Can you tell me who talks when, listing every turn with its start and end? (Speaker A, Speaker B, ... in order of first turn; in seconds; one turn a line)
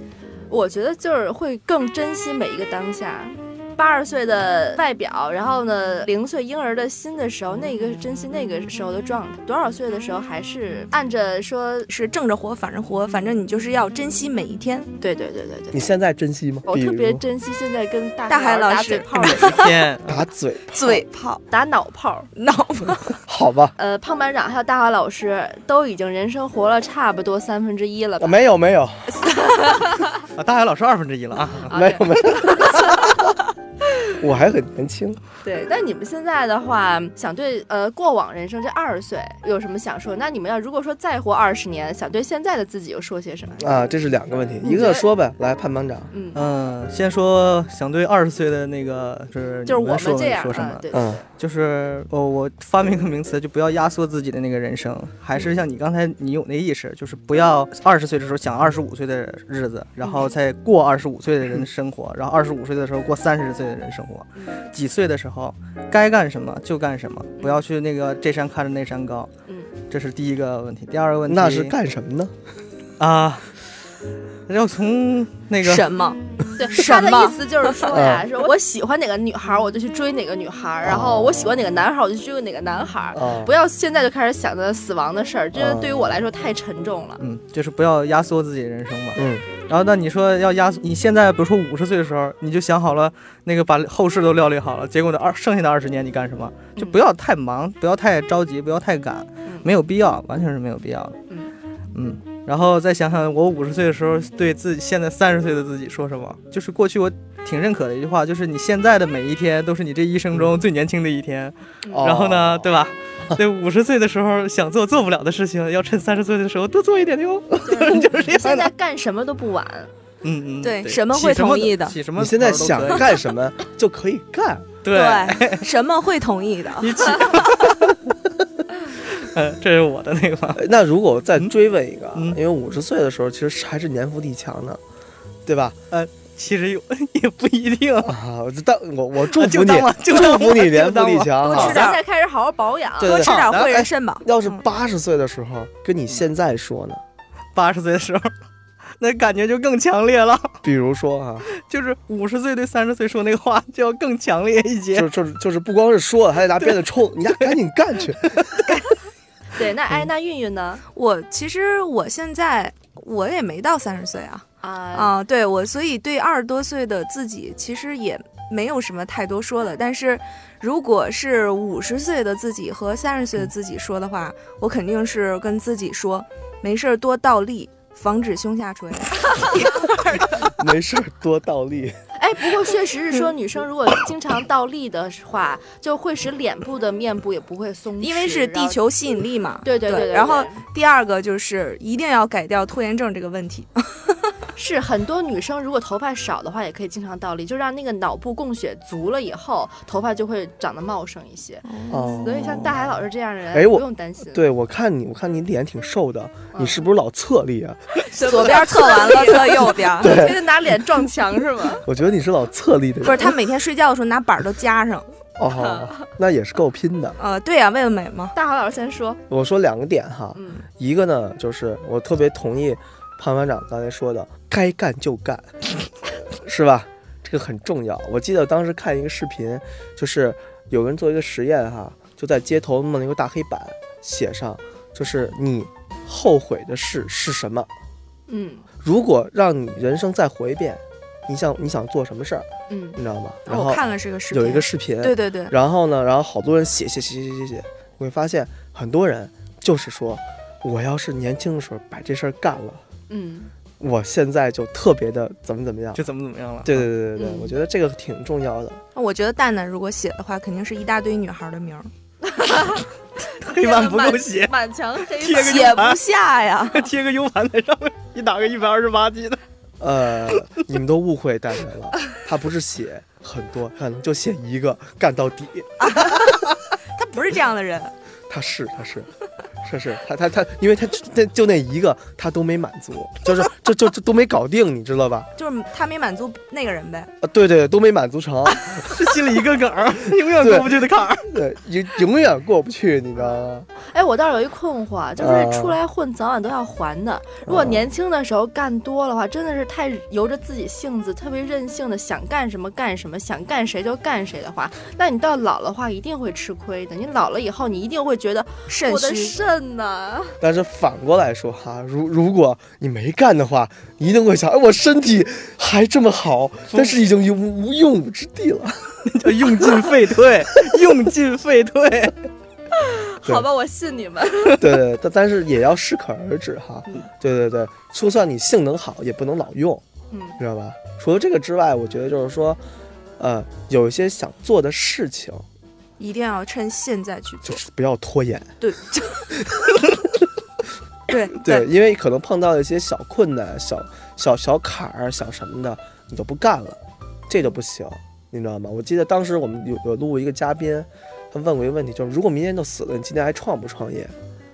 Speaker A: 0.5-11.9
Speaker B: 11.9-14.9
Speaker A: 15.0-15.8
Speaker C: 15.7-17.2
Speaker A: 16.7-19.8
Speaker B: 18.3-19.7
Speaker D: 19.2-20.2
Speaker C: 20.0-21.0
Speaker B: 20.7-21.4
Speaker A: 21.5-22.3
Speaker B: 22.4-23.1
Speaker C: 23.2-23.8
Speaker A: 23.8-28.4
Speaker C: 28.2-29.2
Speaker A: 29.3-30.1
Speaker D: 30.4-31.8
Speaker A: 31.7-33.2
Speaker C: 31.7-33.2
Speaker C: 34.2-35.2
Speaker A: 35.4-43.8
Speaker C: 43.6-46.1
Speaker A: 44.6-45.1
Speaker A: 46.1-46.4
Speaker D: 46.3-50.9
Speaker A: 49.7-51.2
Speaker C: 50.9-51.2
Speaker D: 51.4-69.3
Speaker A: 60.0-60.3
Speaker A: 64.4-64.6
Speaker D: 69.9-71.8
Speaker C: 71.3-72.3
Speaker D: 73.0-73.6
Speaker D: 74.5-75.9
Speaker B: 75.6-77.9
Speaker A: 76.6-87.2
Speaker C: 77.9-78.3
Speaker C: 80.8-81.7
Speaker C: 83.1-83.5
Speaker C: 85.5-86.2
Speaker D: 87.2-101.2
Speaker C: 89.2-89.5
Speaker D: 101.9-118.7
Speaker C: 111.9-112.7
Speaker A: 117.7-119.9
Speaker D: 120.2-123.2
Speaker B: 120.6-122.0
Speaker C: 122.2-124.7
Speaker D: 124.8-125.7
Speaker B: 124.9-127.5
Speaker D: 126.8-128.0
Speaker D: 128.9-130.7
Speaker C: 130.6-134.8
Speaker C: 135.5-135.8
Speaker D: 135.9-138.2
Speaker C: 138.0-141.8
Speaker D: 139.2-141.7
Speaker B: 141.4-142.0
Speaker A: 141.5-143.2
Speaker C: 143.0-147.0
Speaker B: 143.0-144.6
Speaker D: 143.3-143.7
Speaker D: 147.6-148.3
Speaker D: 149.0-150.6
Speaker C: 150.6-151.5
Speaker D: 151.5-155.1
Speaker C: 154.9-158.5
Speaker D: 158.2-158.6
Speaker A: 159.5-160.8
Speaker B: 160.9-180.5
Speaker A: 164.6-165.2
Speaker C: 180.4-182.0
Speaker A: 182.2-188.8
Speaker B: 188.0-194.3
Speaker A: 189.6-190.6
Speaker A: 194.6-201.7
Speaker B: 201.6-202.5
Speaker C: 201.9-203.0
Speaker A: 202.2-204.4
Speaker C: 203.5-208.1
Speaker A: 206.5-206.8
Speaker A: 208.1-211.9
Speaker B: 208.2-210.3
Speaker C: 209.9-210.6
Speaker C: 211.8-213.4
Speaker B: 213.0-215.1
Speaker C: 215.4-217.2
Speaker A: 215.5-216.0
Speaker B: 217.2-218.3
Speaker A: 218.3-219.2
Speaker C: 219.3-225.5
Speaker A: 220.3-220.7
Speaker C: 226.1-237.7
Speaker A: 238.3-238.7
Speaker C: 238.8-252.8
Speaker A: 242.7-243.0
Speaker B: 243.5-245.6
Speaker A: 253.1-253.5
Speaker C: 253.8-256.0
Speaker D: 255.9-256.9
Speaker C: 256.6-258.8
Speaker A: 257.2-257.5
Speaker B: 258.9-261.9
Speaker A: 262.2-262.9
Speaker D: 263.4-266.0
Speaker A: 263.6-265.9
Speaker B: 265.4-266.9
Speaker D: 266.7-269.4
Speaker C: 269.8-275.9
Speaker B: 275.8-276.3
Speaker B: 276.9-277.9
Speaker C: 278.3-279.1
Speaker C: 279.6-285.3
Speaker B: 285.4-287.1
Speaker C: 287.2-288.9
Speaker D: 288.8-291.4
Speaker C: 290.4-293.7
Speaker A: 293.1-310.4
Speaker C: 295.2-295.8
Speaker C: 297.4-297.9
Speaker B: 308.7-309.4
Speaker C: 310.4-319.0
Speaker D: 316.7-317.0
Speaker D: 319.1-322.2
Speaker A: 322.8-324.7
Speaker C: 324.6-329.8
Speaker A: 330.1-330.4
Speaker C: 330.4-332.6
Speaker C: 333.2-335.4
Speaker B: 336.0-337.6
Speaker C: 337.4-338.6
Speaker B: 338.6-339.2
Speaker C: 339.3-339.7
Speaker B: 341.1-341.7
Speaker C: 341.3-354.1